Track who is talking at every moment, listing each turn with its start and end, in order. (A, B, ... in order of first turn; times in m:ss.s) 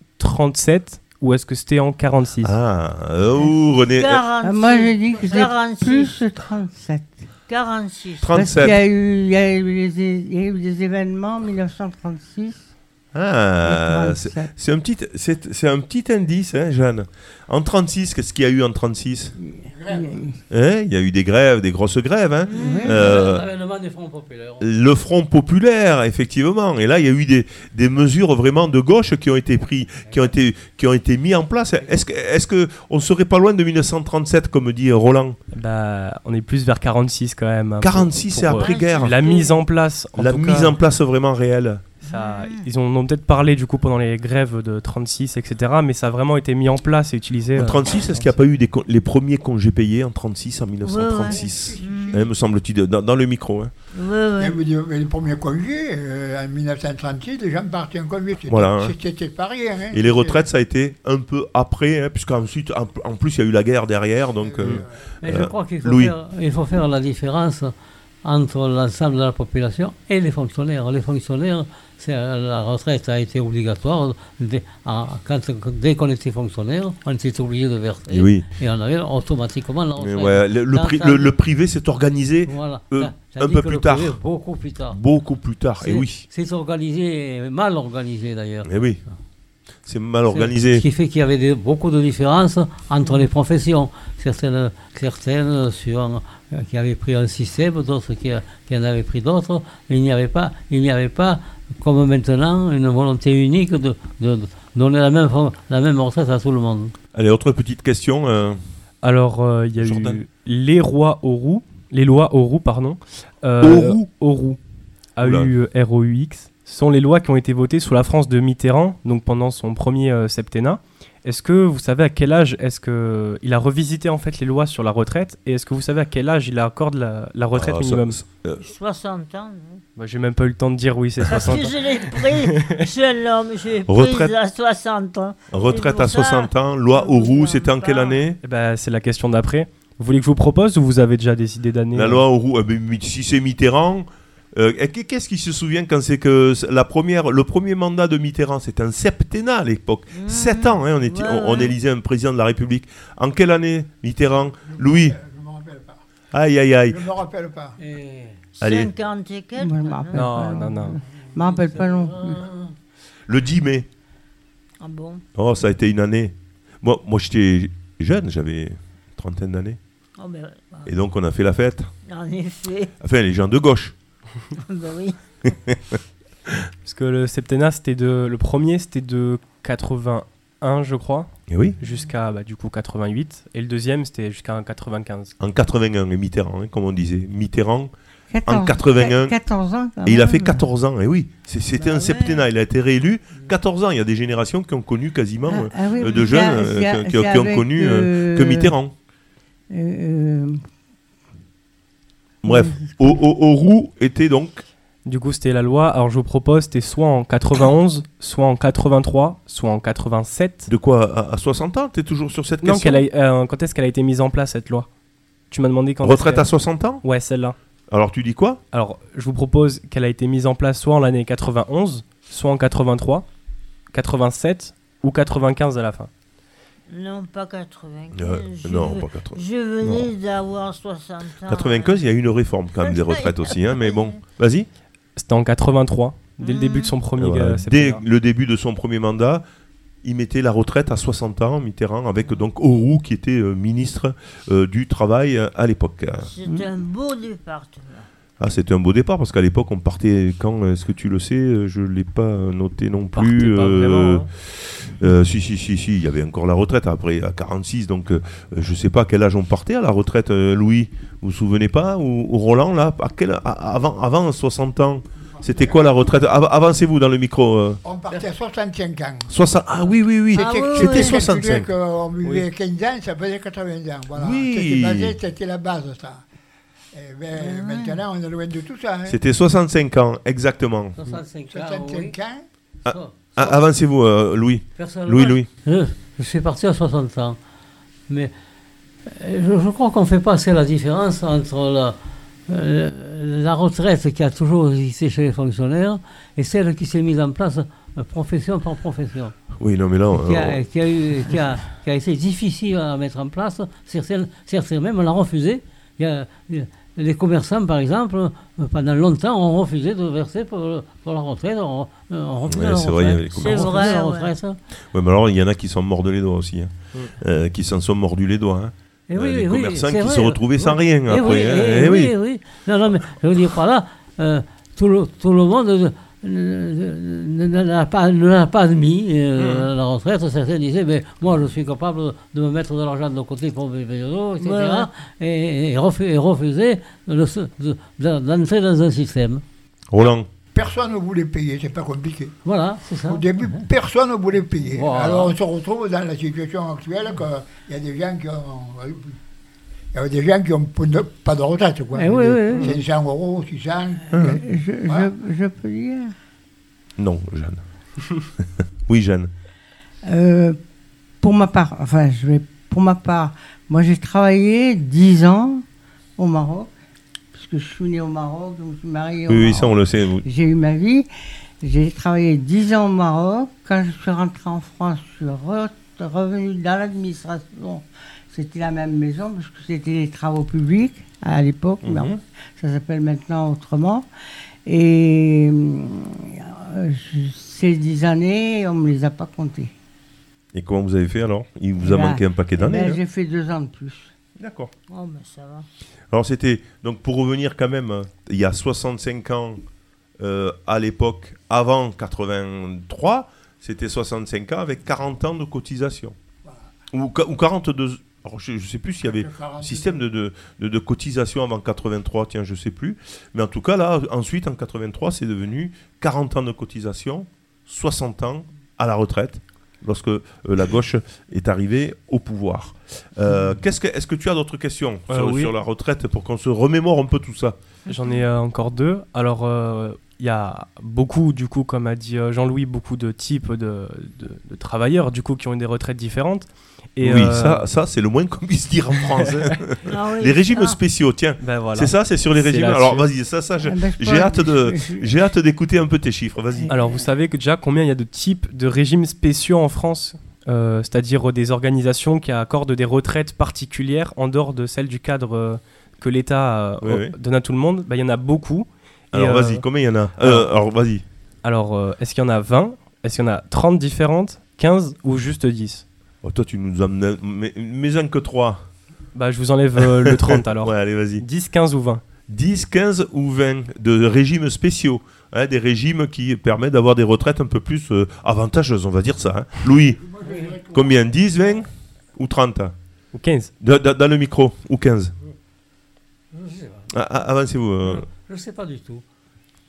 0:00.2-0:02.6 A
0:02.4-0:04.2 B
0:04.0-0:06.1 C
0:04.4-0:07.3 D
0:07.5-0:08.6 C
0:08.2-0:08.8 B
0:08.3-0:12.7 D
0:13.1-0:19.3 B
0:13.6-0:14.5 D
0:19.4-0:20.4 D
0:19.7-0:20.2 E
0:20.5-0:23.4 B
0:22.5-0:24.6 F
0:22.6-0:23.0 D
0:24.6-0:35.4 B
0:35.5-0:40.7 A
0:37.8-0:39.2 B
0:38.5-0:39.5 C
0:40.2-0:41.8 B
0:42.0-0:48.3 A
0:42.1-0:42.7 C
0:47.5-0:53.7 B
0:50.8-0:52.2 C
0:51.2-0:52.3 E
0:53.9-0:54.6 C
0:54.4-1:00.4 E
0:58.5-0:58.9 B
0:59.9-1:06.1 B
1:04.4-1:05.0 E
1:05.2-1:07.7 F
1:08.2-1:21.3 F
1:18.1-1:18.4 B
1:20.0-1:24.2 B
1:22.5-1:25.0 F
1:24.9-1:26.3 B
1:25.8-1:29.1 F
1:28.6-1:29.0 B
1:29.8-1:30.8 B
1:30.3-1:46.9 F
1:47.1-1:48.6 B
1:49.0-1:54.6 A
1:49.8-1:50.2 B
1:53.6-1:54.1 B
1:55.2-2:08.2 A
1:55.2-1:55.5 B
2:07.5-2:08.6 B
2:08.6-2:09.8 C
2:10.0-2:12.8 A
2:11.3-2:18.2 C
2:13.9-2:14.3 B
2:15.5-2:18.4 B
2:18.4-2:22.2 A
2:21.9-2:35.2 B
2:30.1-2:31.7 C
2:34.4-2:36.0 E
2:36.3-2:37.1 B
2:36.9-2:37.8 E
2:37.8-2:38.4 F
2:38.6-2:40.6 C
2:38.6-2:38.9 B
2:39.6-2:42.4 D
2:40.1-2:41.0 A
2:41.3-2:42.7 F
2:43.3-2:43.9 B
2:44.8-2:45.2 C
2:45.3-2:49.8 B
2:50.2-2:50.9 C
2:50.8-2:51.9 B
2:52.1-2:52.9 C
2:53.0-2:54.0 B
2:54.7-2:55.4 C
2:55.7-2:56.0 B
2:56.8-3:05.3 A
3:01.5-3:01.7 B
3:01.8-3:02.1 C
3:05.4-3:07.9 B
3:08.3-3:10.7 D
3:08.4-3:09.4 B
3:10.0-3:18.9 B
3:11.8-3:12.4 C
3:15.5-3:18.7 D
3:19.7-3:20.6 D
3:22.4-3:24.6 B
3:22.5-3:22.9 D
3:25.0-3:30.7 A
3:30.7-3:33.0 B
3:32.6-3:34.9 A
3:35.5-3:37.6 A
3:36.0-3:37.0 B
3:37.9-3:38.6 B
3:38.7-3:43.3 A
3:43.9-3:46.1 A
3:46.9-3:52.0 C
3:48.1-3:50.1 B
3:51.5-3:54.7 B
3:52.8-3:54.2 C
3:55.2-3:58.0 A
3:56.4-3:56.9 C
3:57.2-3:59.4 B
4:00.0-4:06.3 B
4:06.2-4:08.1 C
4:08.4-4:27.8 B
4:13.1-4:14.3 A
4:25.4-4:26.1 E
4:27.8-4:29.3 E
4:29.3-4:31.7 B
4:30.3-4:31.3 C
4:30.3-4:36.2 E
4:34.2-4:35.1 B
4:36.9-4:39.2 E
4:37.3-4:38.0 C
4:39.1-4:41.0 B
4:41.0-4:42.2 F
4:41.5-4:42.4 E
4:42.8-4:45.5 B
4:42.9-4:43.1 F
4:44.8-4:47.4 F
4:49.1-4:52.0 F
4:52.5-4:59.3 F
4:59.6-5:00.6 B
5:00.1-5:14.6 F
5:12.5-5:13.9 B
5:13.3-5:14.4 C
5:14.9-5:22.1 B
5:19.1-5:39.4 F
5:29.4-5:29.7 B
5:34.4-5:34.9 C
5:39.9-5:40.3 B
5:40.5-5:42.4 E
5:42.4-5:43.6 F
5:43.0-5:49.2 E
5:44.6-5:45.3 F
5:49.9-5:55.1 E
5:51.9-5:52.8 F
5:54.1-5:54.4 B
5:54.2-5:56.1 D
5:57.0-5:57.6 B
5:58.9-5:59.3 B
6:00.0-6:00.6 D
6:01.2-6:05.6 D
6:06.2-6:06.7 D
6:07.3-6:11.1 D
6:09.3-6:10.2 B
6:11.6-6:24.1 D
6:21.8-6:22.2 B
6:24.6-6:29.7 D
6:30.5-6:33.0 B
6:31.8-6:34.1 D
6:34.4-6:34.7 B
6:34.9-6:35.7 C
6:36.1-6:39.6 B
6:40.2-6:46.2 B
6:46.9-7:07.6 B
6:49.0-6:50.0 E
7:05.1-7:05.5 A
7:07.9-7:17.6 A
7:17.0-7:26.7 B
7:19.8-7:20.8 C
7:21.4-7:23.0 A
7:23.6-7:25.1 D
7:26.7-7:40.5 A
7:36.8-7:37.1 B
7:39.1-7:41.0 B
7:41.4-7:45.8 A
7:46.2-7:48.7 B
7:49.1-7:52.0 A
7:49.8-7:51.2 B
7:52.3-8:00.0 B
7:59.8-8:01.6 E
8:00.2-8:00.5 F
8:00.7-8:02.8 B
8:03.1-8:03.5 A
8:03.6-8:05.1 B
8:06.3-8:06.9 F
8:06.9-8:08.0 B
8:08.0-8:09.0 F